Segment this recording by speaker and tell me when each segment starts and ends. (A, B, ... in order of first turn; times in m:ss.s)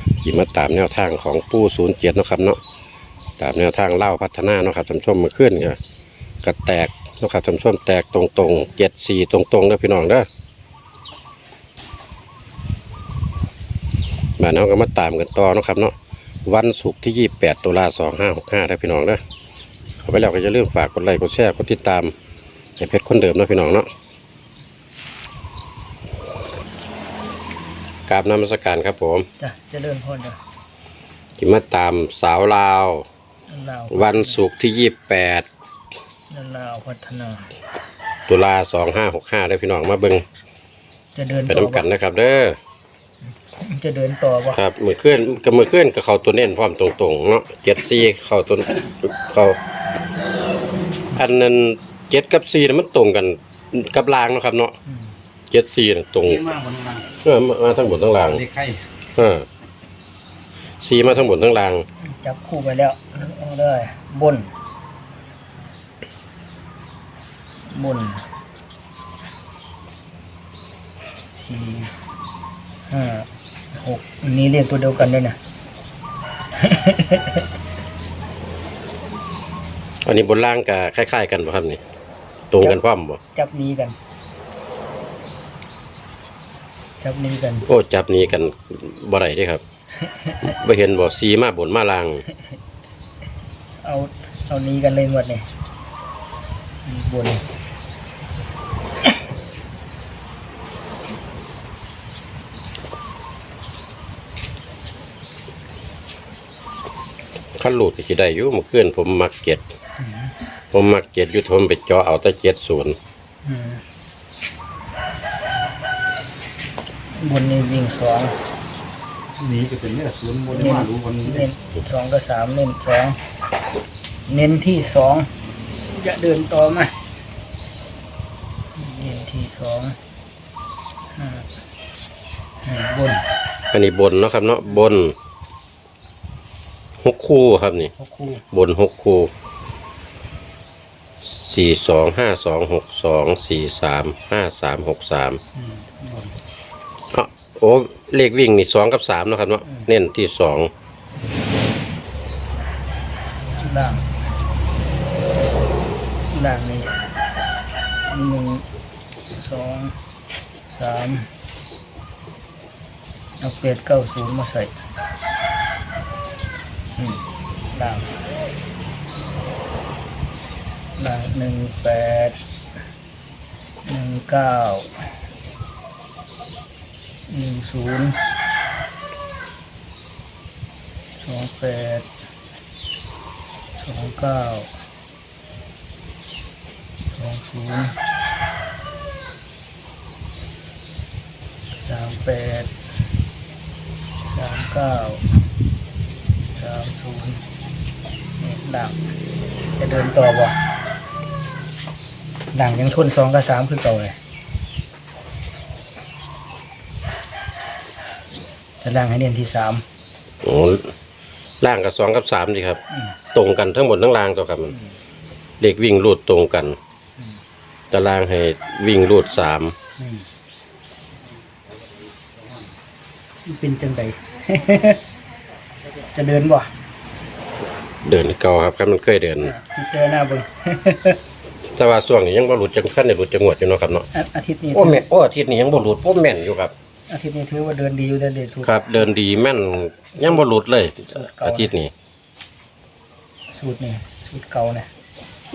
0:00.2-0:02.6 A
0:03.4-0:05.8 A
0:06.4-0:10.2 A
0:14.4-0:15.9 A
0:16.5-0:19.2 A
0:20.0-0:22.1 A
0:22.8-0:23.9 A
0:28.1-0:29.3 A
0:29.4-0:30.4 B
0:31.4-0:33.0 A
0:33.5-0:34.4 B
0:33.9-0:35.4 A
0:36.3-0:37.5 B
0:38.3-0:40.2 A
0:41.1-0:41.9 B
0:41.5-0:42.6 A
0:43.4-0:44.6 B
0:44.5-0:49.6 A
0:51.1-0:54.7 A
0:55.5-0:56.5 A
0:56.5-0:57.0 C
0:57.2-0:58.4 A
0:58.5-0:58.8 C
0:59.2-0:59.4 A
1:00.8-1:01.9 A
1:02.0-1:04.5 B
1:07.7-1:08.2 B
1:11.3-1:12.0 B
1:12.9-1:15.4 B
1:16.6-1:17.5 B
1:20.0-1:21.8 A
1:22.5-1:23.2 A
1:23.3-1:24.0 B
1:27.0-1:27.7 B
1:27.7-1:29.6 A
1:30.1-1:30.4 B
1:30.4-1:32.2 A
1:33.8-1:35.5 B
1:36.8-1:37.4 B
1:47.6-1:49.6 A
1:50.0-1:50.3 B
1:50.7-1:53.0 A
1:53.4-1:53.8 B
1:57.1-1:58.4 B
1:59.4-1:59.7 B
1:59.6-2:01.2 C
2:00.5-2:03.2 B
2:04.3-2:05.3 B
2:05.9-2:07.0 B
2:08.7-2:10.0 B
2:11.1-2:11.5 B
2:12.6-2:13.3 B
2:13.7-2:15.1 A
2:17.0-2:17.9 A
2:17.9-2:18.4 B
2:18.5-2:19.3 A
2:21.2-2:25.4 A
2:25.6-2:26.3 B
2:27.1-2:30.7 A
2:33.6-2:34.0 B
2:36.3-2:36.9 B
2:38.1-2:38.6 B
2:39.3-2:40.0 B
2:40.7-2:41.3 B
2:43.4-2:44.7 B
2:47.0-2:48.1 B
2:51.0-2:52.4 B
2:53.8-2:55.0 B
2:57.3-2:58.2 B
3:01.2-3:02.1 B
3:03.8-3:04.7 B
3:07.1-3:08.0 B
3:11.7-3:12.7 B
3:14.2-3:15.2 B
3:16.5-3:17.4 B
3:18.4-3:19.0 B
3:19.8-3:20.6 B
3:22.5-3:24.2 B
3:28.8-3:29.8 B
3:30.4-3:30.9 A
3:31.6-3:32.8 A
3:32.9-3:33.2 B
3:33.3-3:34.7 A
3:35.6-3:36.8 A
3:37.9-3:39.7 A
3:40.0-3:40.2 B
3:43.4-3:45.0 B
3:46.1-3:46.7 B
3:48.0-3:49.5 A
3:49.4-3:51.2 B
3:51.8-3:54.1 A
3:54.1-3:55.0 B
3:54.7-3:56.7 A
3:57.1-3:59.1 B
3:58.6-4:01.9 A
4:00.2-4:00.5 B
4:01.0-4:01.8 B
4:03.5-4:04.9 B